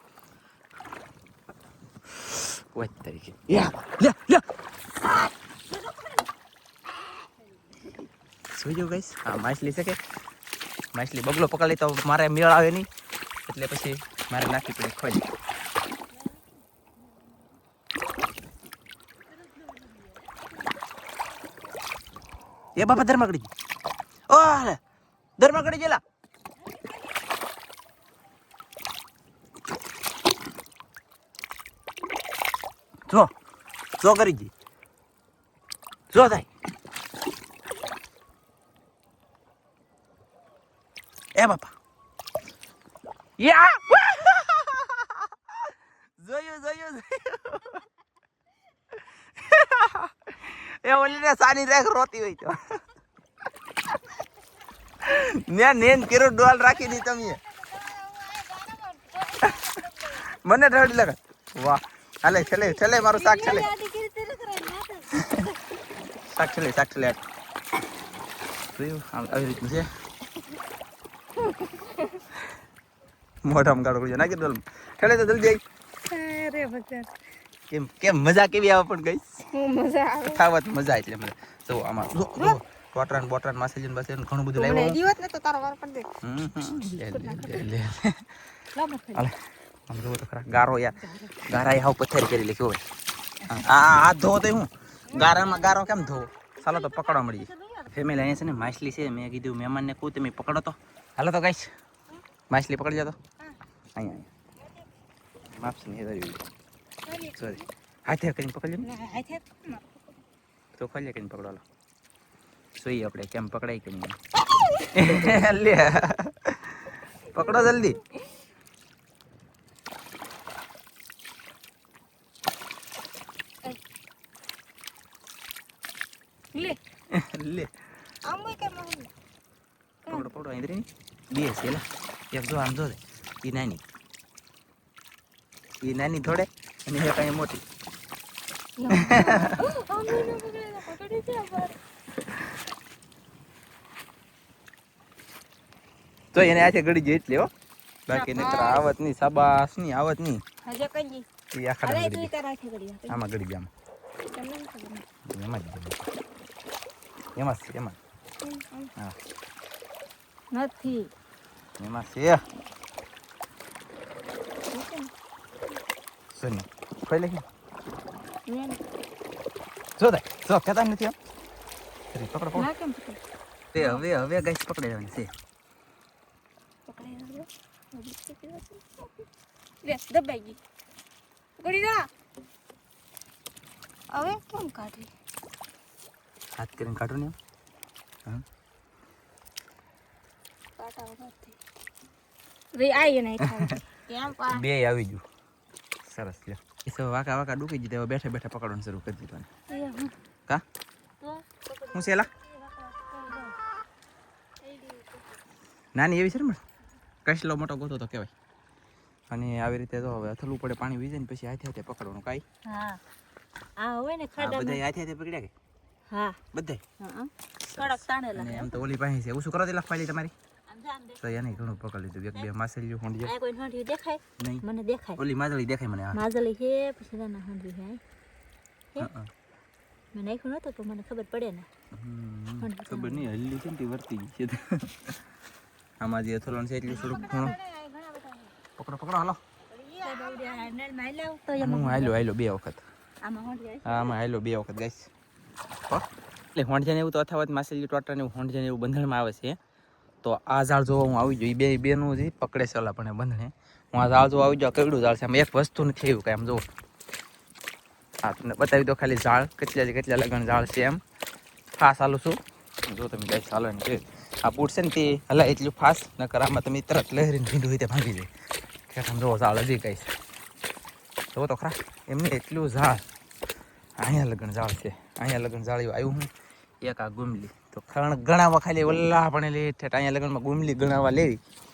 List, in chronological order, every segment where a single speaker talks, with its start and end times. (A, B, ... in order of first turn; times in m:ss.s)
0:02.2-0:04.4 A
0:08.5-0:10.0 A
0:10.9-0:12.9 A
0:13.5-0:15.3 A
0:22.8-0:23.5 A
0:24.3-0:24.8 A
0:25.4-0:26.0 A
0:34.0-0:34.5 A
0:36.1-0:36.5 A
0:41.4-0:41.7 A
0:43.4-0:45.3 A
0:46.2-0:47.8 A
0:49.2-0:52.8 A
0:55.0-0:57.4 A
0:57.0-1:00.2 B
0:59.4-1:03.7 A
1:02.4-1:05.4 C
1:05.2-1:05.5 A
1:06.2-1:07.2 A
1:08.7-1:09.9 A
1:11.8-1:12.2 B
1:13.4-1:15.6 A
1:16.1-1:17.1 B
1:17.7-1:19.5 A
1:19.5-1:20.4 B
1:20.2-1:25.0 A
1:24.6-1:26.1 B
1:26.2-1:28.4 A
1:27.0-1:27.6 B
1:28.8-1:29.1 B
1:29.1-1:32.8 A
1:33.5-1:41.7 A
1:35.1-1:35.7 B
1:36.6-1:37.1 B
1:42.5-1:43.2 A
1:44.0-1:44.3 A
1:45.6-1:46.4 A
1:47.1-1:47.4 B
1:47.4-1:48.9 A
1:48.8-1:49.8 B
1:50.8-1:51.6 A
1:52.8-1:54.2 A
1:54.9-1:58.0 A
2:06.5-2:06.8 B
2:07.1-2:07.7 A
2:08.3-2:09.1 B
2:10.1-2:13.8 A
2:15.8-2:17.6 A
2:18.8-2:21.8 B
2:18.9-2:19.6 A
2:26.3-2:27.5 A
2:28.1-2:30.4 A
2:28.1-2:28.9 B
2:30.6-2:31.3 B
2:31.5-2:32.3 A
2:31.8-2:33.2 B
2:33.1-2:33.7 A
2:34.3-2:35.0 B
2:35.3-2:36.1 A
2:37.4-2:38.0 A
2:38.4-2:38.9 B
2:40.6-2:41.1 C
2:40.6-2:40.9 B
2:41.8-2:42.4 A
2:44.7-2:45.1 B
2:46.3-2:47.4 A
2:48.5-2:48.8 B
2:50.0-2:51.2 A
2:52.1-2:52.7 A
2:52.6-2:53.2 B
2:53.7-2:55.3 A
2:56.9-2:59.1 B
2:59.8-3:00.6 B
3:01.6-3:02.1 B
3:04.1-3:05.1 B
3:06.6-3:07.4 A
3:10.8-3:11.6 B
3:12.7-3:14.6 B
3:13.4-3:15.2 A
3:16.0-3:19.5 A
3:19.7-3:20.1 B
3:19.7-3:20.0 C
3:21.2-3:23.5 C
3:21.9-3:22.3 A
3:24.6-3:25.2 B
3:26.0-3:26.6 A
3:27.2-3:28.3 A
3:29.3-3:32.4 A
3:32.7-3:33.0 C
3:33.8-3:34.8 C
3:34.4-3:35.5 A
3:36.1-3:36.4 C
3:36.5-3:36.8 A
3:37.0-3:38.7 C
3:37.7-3:40.3 A
3:40.7-3:41.4 C
3:41.2-3:43.3 A
3:43.2-3:45.2 C
3:44.4-3:44.6 A
3:45.2-3:46.2 A
3:46.1-3:48.0 C
3:49.0-3:49.3 A
3:50.1-3:51.7 C
3:51.9-3:55.2 A
3:52.6-3:53.3 C
3:56.0-3:57.6 A
3:57.0-3:57.5 C
3:57.0-3:58.5 B
3:58.8-3:59.4 A
3:59.7-4:00.7 B
4:00.0-4:02.2 C
4:01.6-4:02.8 A
4:03.2-4:04.0 C
4:03.8-4:05.1 A
4:05.9-4:09.6 A
4:10.2-4:16.6 A
4:18.2-4:21.0 A
4:21.8-4:28.3 A
4:28.9-4:30.1 A
4:31.3-4:33.0 A
4:34.0-4:36.3 A
4:36.8-4:41.4 A